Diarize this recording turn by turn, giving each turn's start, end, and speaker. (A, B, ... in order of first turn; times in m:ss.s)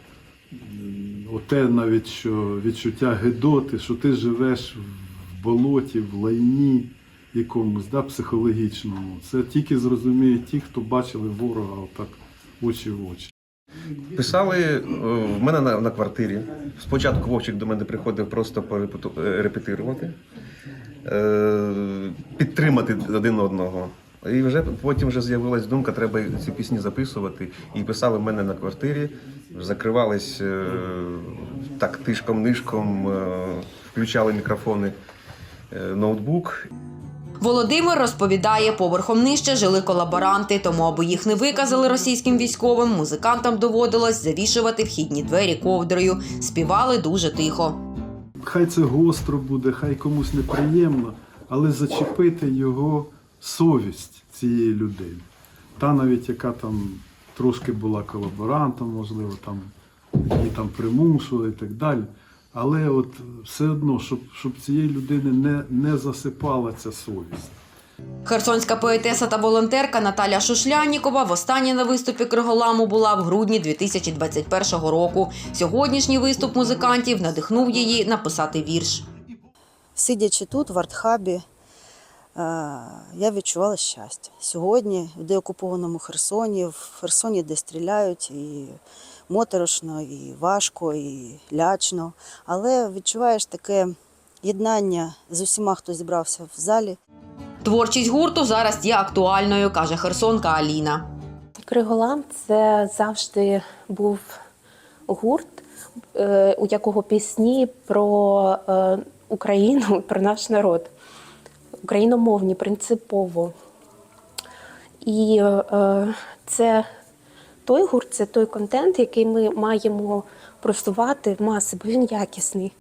0:00.5-0:13.3 A
0:14.2-0:20.2 B
0:21.1-0:35.0 B
0:35.7-0:36.6 B
0:37.4-0:47.8 C
0:48.4-0:59.7 A
1:00.2-1:07.6 A
1:08.2-1:19.1 C
1:20.0-1:21.4 D
1:22.4-1:28.8 D
1:29.3-1:37.0 D
1:37.6-1:41.0 C
1:41.6-1:44.3 E
1:45.1-1:45.6 E
1:46.2-1:50.9 E
1:51.8-1:53.5 E
1:55.0-1:56.8 E
1:57.7-2:02.7 E